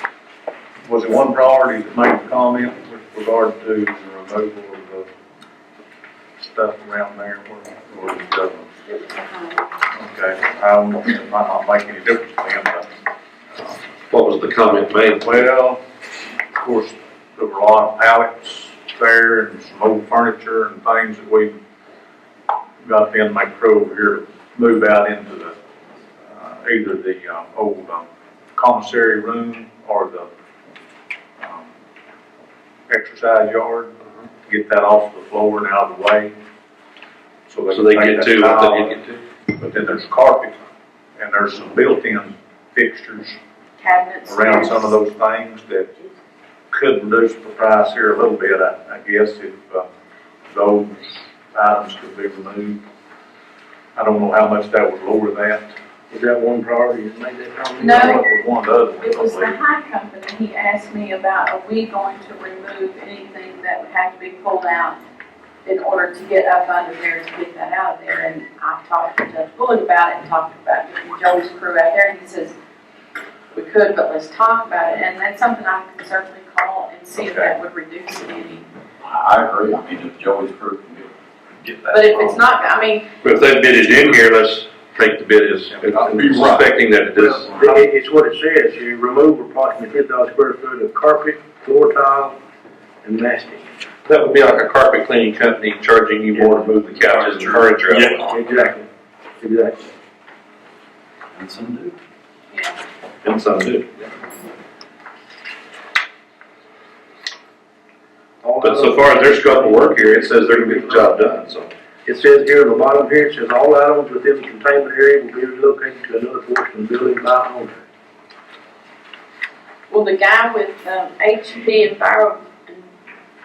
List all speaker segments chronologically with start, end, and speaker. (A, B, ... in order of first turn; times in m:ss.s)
0:00.8-0:05.1 A
0:06.4-0:08.7 A
0:08.8-0:09.6 B
0:09.9-0:12.9 A
0:14.1-0:15.3 C
0:15.2-0:15.8 A
0:16.5-0:21.5 A
0:22.8-0:25.5 A
0:26.3-0:30.3 A
0:31.4-0:31.7 A
0:32.9-0:33.9 A
0:34.4-0:36.3 A
0:37.5-0:43.4 A
0:37.7-0:39.2 C
0:43.8-0:44.9 B
0:44.3-0:45.9 A
0:46.7-0:49.9 A
0:50.5-0:52.8 A
0:54.0-0:55.7 A
0:56.1-0:58.2 D
0:57.8-1:05.0 B
0:57.8-0:59.6 A
1:05.6-1:12.5 B
1:13.5-1:18.6 B
1:17.3-1:17.5 A
1:19.0-1:22.6 E
1:21.9-1:23.1 B
1:23.2-1:27.8 C
1:25.7-1:26.5 A
1:26.1-1:26.6 E
1:27.1-1:32.4 D
1:33.0-1:33.7 D
1:34.0-1:38.6 C
1:36.3-1:38.9 D
1:39.4-1:39.9 D
1:41.3-1:42.0 E
1:42.5-1:42.8 B
1:43.2-1:43.9 C
1:48.4-1:51.2 D
1:48.6-1:51.7 C
1:52.0-1:57.8 D
1:59.9-2:02.8 B